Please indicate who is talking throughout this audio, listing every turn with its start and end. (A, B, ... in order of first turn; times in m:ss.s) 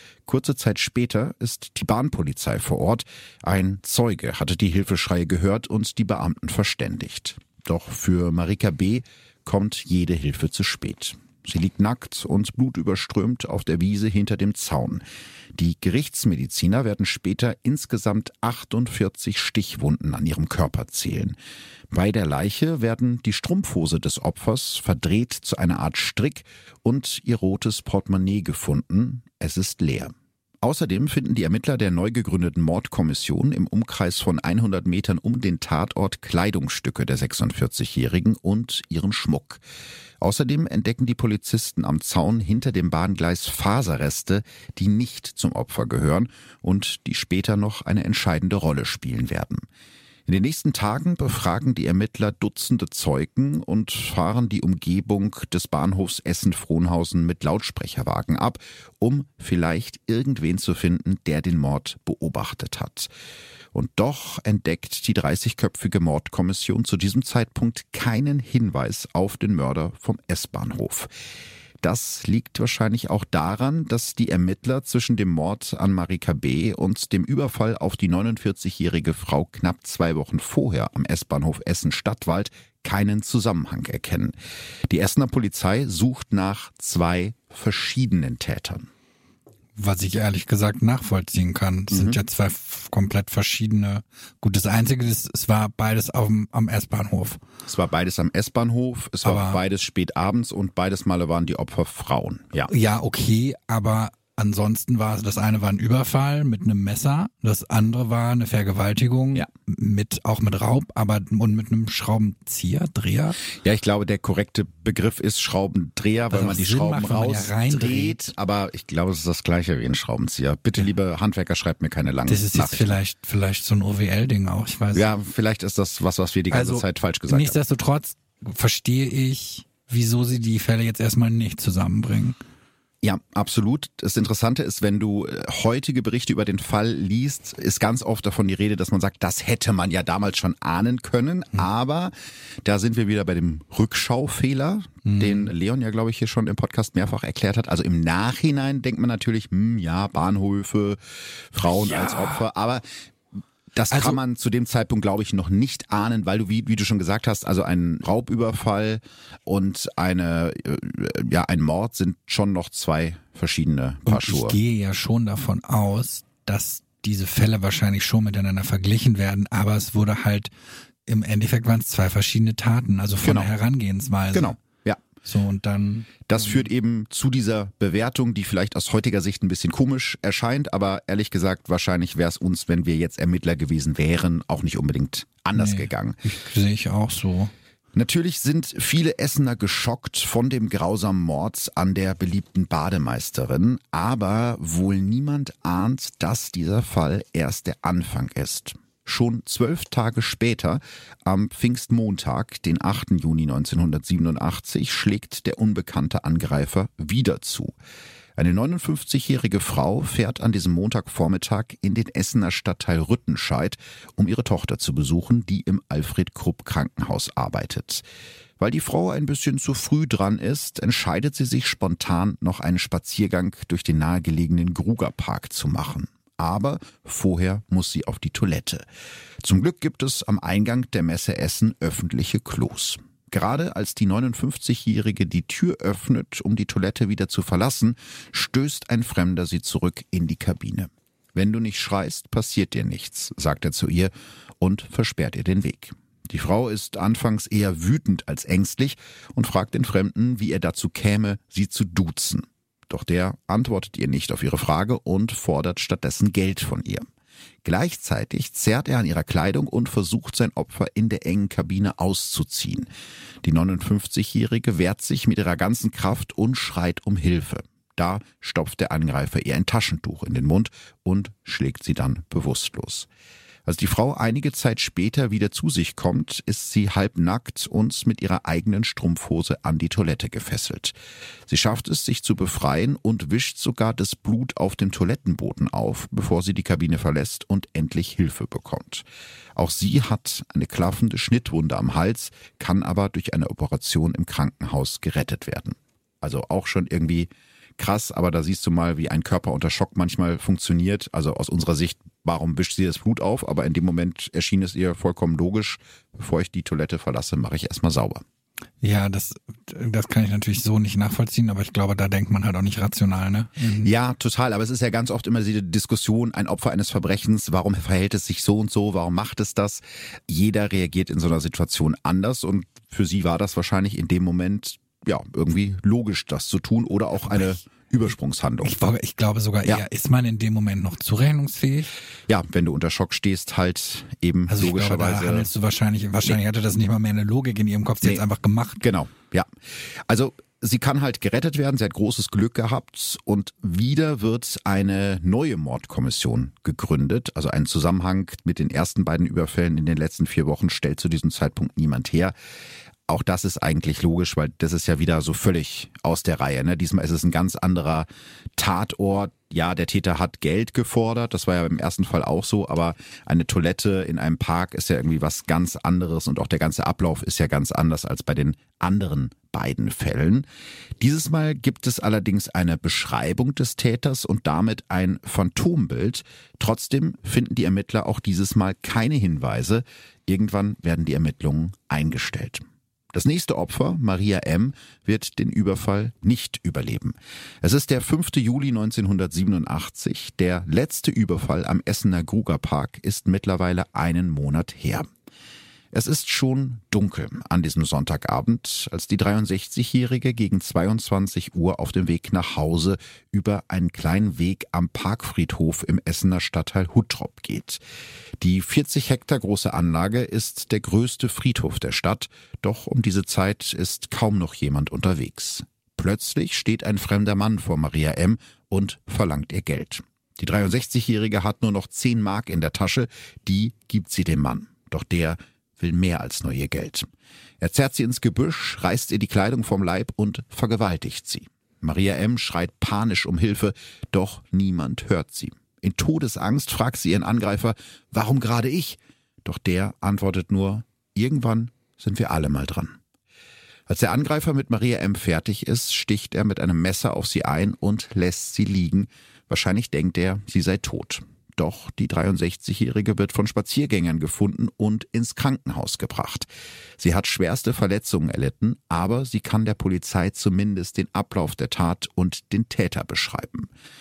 0:00.2-0:15.0 A
0:15.5-0:21.4 A
0:21.9-0:39.6 A
0:40.2-0:49.7 A
0:50.3-1:03.1 A
1:03.7-1:11.1 A
1:11.8-1:24.3 A
1:24.9-1:28.9 A
1:29.8-1:37.4 B
1:31.9-1:32.2 A
1:37.6-1:42.7 A
1:39.2-1:39.6 B
1:42.7-1:53.4 B
1:53.5-2:02.9 A
1:56.3-1:58.3 B
2:02.3-2:05.0 B
2:04.9-2:07.6 A
2:06.5-2:12.4 B
2:13.0-2:22.1 A
2:22.6-2:32.8 A
2:25.0-2:25.5 B
2:31.6-2:32.4 B
2:33.7-2:44.6 A
2:33.9-2:34.2 B
2:44.1-2:50.5 B
2:51.1-2:54.5 B
2:53.2-2:53.5 A
2:54.3-2:55.0 A
2:55.2-2:56.2 B
2:56.3-3:06.2 A
3:05.5-3:07.5 B
3:07.9-3:27.7 A
3:28.4-3:38.0 A
3:38.6-3:48.8 A
3:49.4-4:17.1 A
4:17.6-4:22.9 A
4:23.4-4:33.1 A
4:33.6-4:40.9 A
4:41.5-4:49.0 A
4:49.6-5:08.2 A
5:08.8-5:13.9 B
5:13.8-5:28.7 A
5:28.6-5:31.9 B
5:32.3-5:35.5 A
5:34.5-5:38.8 B
5:38.8-5:52.3 A
5:53.1-6:10.4 A
6:11.0-6:35.1 A
6:35.9-6:47.8 A
6:48.4-7:23.0 A
7:23.9-7:36.5 A
7:37.0-7:43.7 A